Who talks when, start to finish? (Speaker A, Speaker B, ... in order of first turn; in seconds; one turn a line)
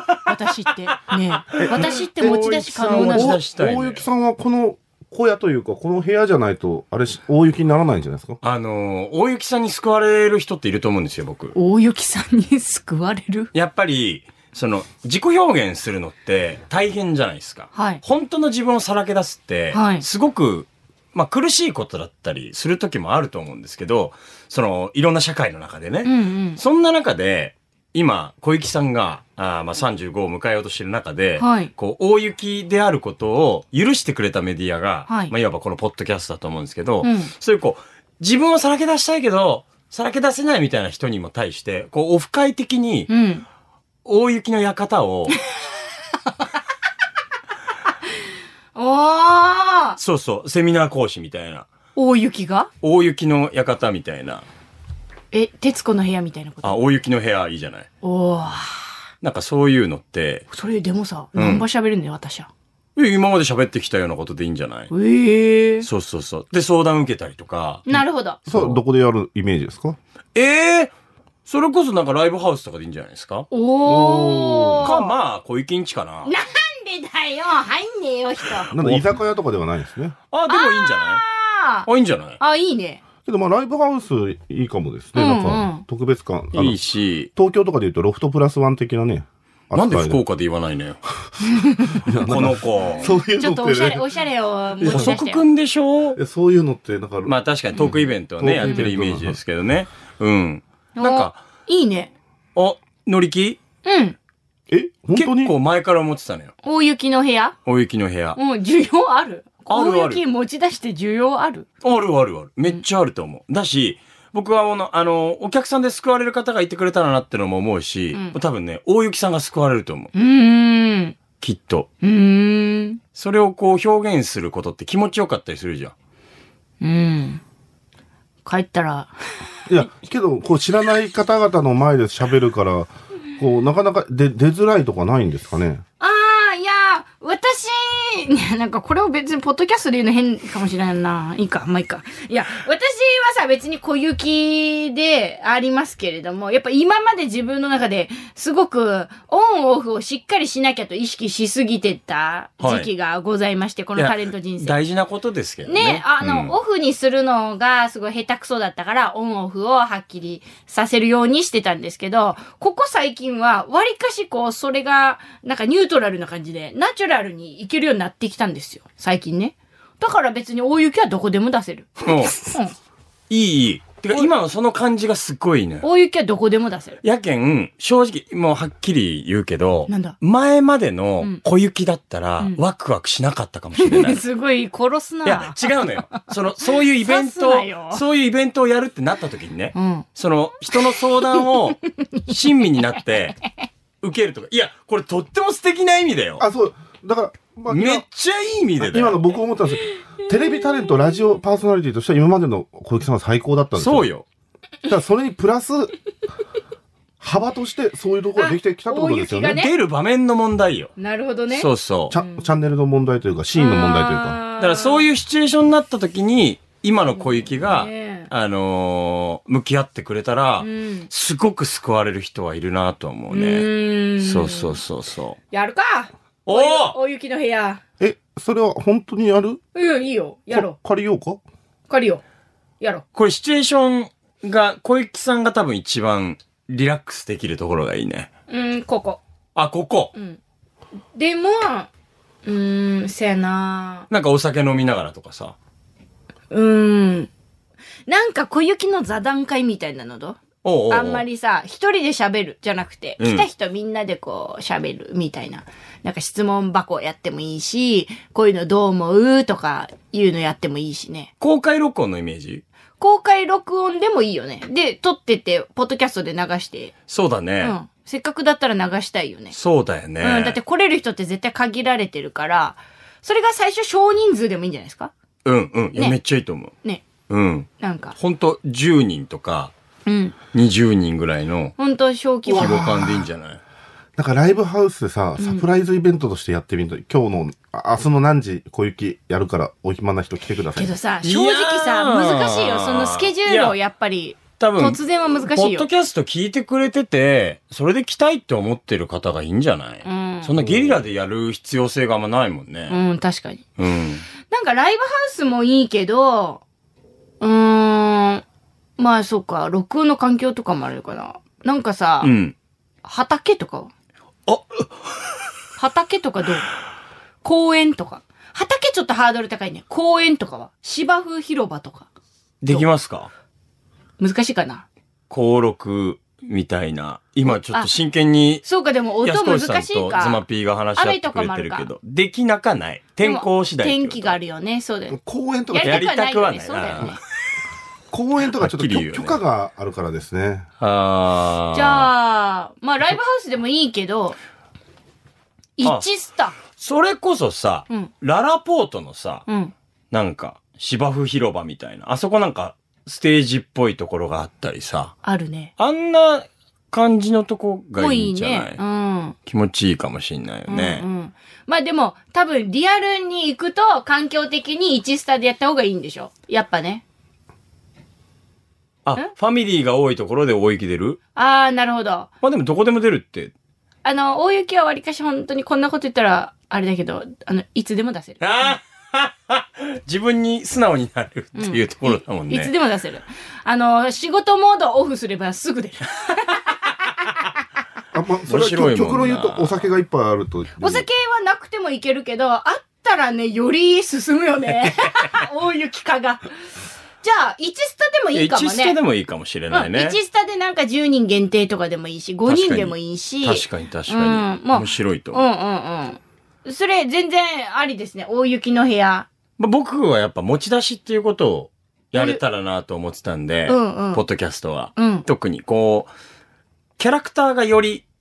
Speaker A: 0.2-3.4
Speaker B: 1.5-4.1
Speaker C: 1.6-8.4
Speaker B: 8.4-11.6
Speaker A: 11.6-13.5
Speaker B: 13.5-43.1
Speaker A: 17.7-18.0
Speaker A: 19.7-20.1
Speaker A: 26.1-26.6
Speaker A: 31.4-31.7
Speaker A: 35.1-35.3
Speaker A: 37.0-37.3
Speaker A: 43.1-43.5
Speaker B: 44.0-45.4
Speaker A: 48.8-50.0
Speaker B: 50.0-51.7
Speaker A: 52.0-52.7
Speaker B: 52.8-54.5
Speaker A: 55.3-56.8
Speaker B: 56.6-57.9
Speaker A: 58.0-58.9
Speaker B: 59.2-60.5
Speaker A: 60.5-62.5
Speaker B: 61.4-61.7
Speaker B: 63.0-64.9
Speaker A: 64.9-65.9
Speaker B: 65.8-67.9
Speaker A: 67.9-68.4
Speaker B: 68.5-68.8
Speaker C: 68.5-70.0
Speaker B: 70.3-70.9
Speaker B: 71.5-73.5
Speaker A: 73.5-75.1
Speaker C: 73.8-74.9
Speaker B: 74.8-76.3
Speaker A: 76.2-78.7
Speaker B: 78.7-79.1
Speaker C: 78.7-80.2
Speaker B: 80.3-81.2
Speaker A: 80.5-81.9
Speaker B: 81.9-82.4
Speaker A: 82.4-83.0
Speaker C: 83.2-86.8
Speaker A: 85.2-85.8
Speaker B: 86.5-87.3
Speaker C: 87.3-90.2
Speaker B: 89.7-91.0
Speaker A: 91.5-92.0
Speaker C: 91.8-94.1
Speaker B: 92.2-93.1
Speaker A: 93.4-95.4
Speaker B: 94.8-96.2
Speaker C: 94.8-95.2
Speaker C: 96.2-97.3
Speaker B: 97.3-101.4
Speaker A: 97.8-98.0
Speaker C: 97.9-99.4
Speaker A: 101.0-102.1
Speaker B: 102.5-103.6
Speaker A: 103.8-104.2
Speaker C: 104.7-105.5
Speaker B: 105.1-106.5
Speaker A: 106.6-107.5
Speaker B: 107.7-108.4
Speaker A: 108.3-111.7
Speaker B: 109.7-110.2
Speaker B: 111.8-120.1
Speaker A: 120.1-121.2
Speaker B: 121.4-121.9
Speaker A: 122.0-123.0
Speaker B: 123.2-125.9
Speaker A: 126.8-127.4
Speaker A: 128.4-129.1
Speaker C: 129.7-135.8
Speaker A: 136.0-154.8
Speaker B: 152.6-152.9
Speaker B: 154.0-156.6
Speaker A: 155.7-172.7
Speaker B: 172.1-172.5
Speaker B: 173.3-175.9
Speaker A: 175.8-177.0
Speaker B: 177.0-184.2
Speaker A: 179.9-180.2
Speaker A: 183.8-188.0
Speaker B: 185.2-193.4
Speaker A: 189.7-190.1
Speaker B: 194.0-196.4
Speaker C: 196.4-198.0
Speaker B: 197.7-199.2
Speaker C: 198.8-204.1
Speaker B: 203.8-204.2
Speaker C: 204.9-205.9
Speaker C: 207.2-209.6
Speaker A: 208.4-209.7
Speaker B: 209.5-210.9
Speaker A: 211.0-212.4
Speaker B: 211.5-212.2
Speaker C: 212.1-214.4
Speaker A: 213.6-215.1
Speaker B: 214.6-223.7
Speaker A: 217.2-218.3
Speaker A: 220.6-221.1
Speaker A: 223.3-224.8
Speaker B: 224.2-225.4
Speaker A: 225.5-227.8
Speaker B: 226.5-227.0
Speaker C: 228.0-229.6
Speaker A: 229.8-230.8
Speaker C: 230.5-231.4
Speaker A: 231.9-232.2
Speaker B: 233.1-238.3
Speaker A: 238.5-239.2
Speaker B: 239.6-240.1
Speaker A: 241.1-241.9
Speaker A: 242.4-244.1
Speaker B: 244.1-245.6
Speaker A: 246.5-247.3
Speaker A: 248.1-250.4
Speaker B: 250.6-251.2
Speaker A: 250.9-261.3
Speaker B: 253.2-253.5
Speaker B: 261.4-262.6
Speaker A: 263.0-266.9
Speaker B: 267.1-267.8
Speaker A: 267.6-269.6
Speaker B: 269.5-270.6
Speaker A: 270.2-275.1
Speaker B: 275.4-276.7
Speaker B: 277.3-279.7
Speaker A: 277.8-278.2
Speaker A: 280.1-280.4
Speaker B: 280.5-281.8
Speaker A: 281.8-282.9
Speaker C: 282.5-283.3
Speaker B: 282.5-283.6
Speaker C: 284.2-290.9
Speaker A: 285.4-285.6
Speaker A: 290.8-295.9
Speaker B: 291.2-293.8
Speaker B: 294.6-303.0
Speaker A: 300.0-300.6
Speaker C: 300.7-301.0
Speaker A: 302.9-303.6
Speaker B: 303.8-304.3
Speaker A: 304.5-306.6
Speaker A: 307.4-308.4
Speaker A: 309.0-312.3
Speaker B: 312.2-312.5
Speaker A: 313.0-313.9
Speaker B: 314.5-314.9
Speaker A: 315.8-316.7
Speaker A: 317.4-322.1
Speaker B: 322.6-323.3
Speaker A: 324.2-324.9
Speaker B: 325.3-328.7
Speaker A: 327.5-327.9
Speaker A: 328.6-330.4
Speaker B: 329.2-334.4
Speaker A: 331.0-331.9
Speaker A: 333.2-335.2
Speaker C: 335.1-336.1
Speaker A: 335.7-337.2
Speaker B: 335.8-337.2
Speaker C: 338.1-340.7
Speaker B: 338.6-339.4
Speaker B: 340.8-342.1
Speaker A: 341.7-344.4
Speaker A: 345.8-346.6
Speaker B: 346.6-349.5
Speaker A: 349.5-349.7
Speaker B: 350.1-355.1
Speaker A: 355.2-355.7
Speaker B: 355.8-358.8
Speaker A: 358.0-359.4
Speaker B: 359.5-361.1
Speaker A: 360.7-367.0
Speaker B: 369.1-371.2
Speaker A: 371.4-372.3
Speaker B: 372.4-373.5
Speaker A: 374.0-378.7
Speaker B: 378.4-382.7
Speaker A: 381.6-387.3
Speaker C: 388.1-391.1
Speaker B: 388.5-389.9
Speaker A: 390.8-396.5
Speaker A: 397.2-399.0
Speaker B: 398.3-400.2
Speaker A: 399.7-409.3
Speaker B: 402.5-405.4
Speaker B: 409.6-416.1
Speaker A: 412.1-412.4
Speaker A: 413.7-414.2
Speaker A: 415.0-415.3
Speaker B: 417.0-418.1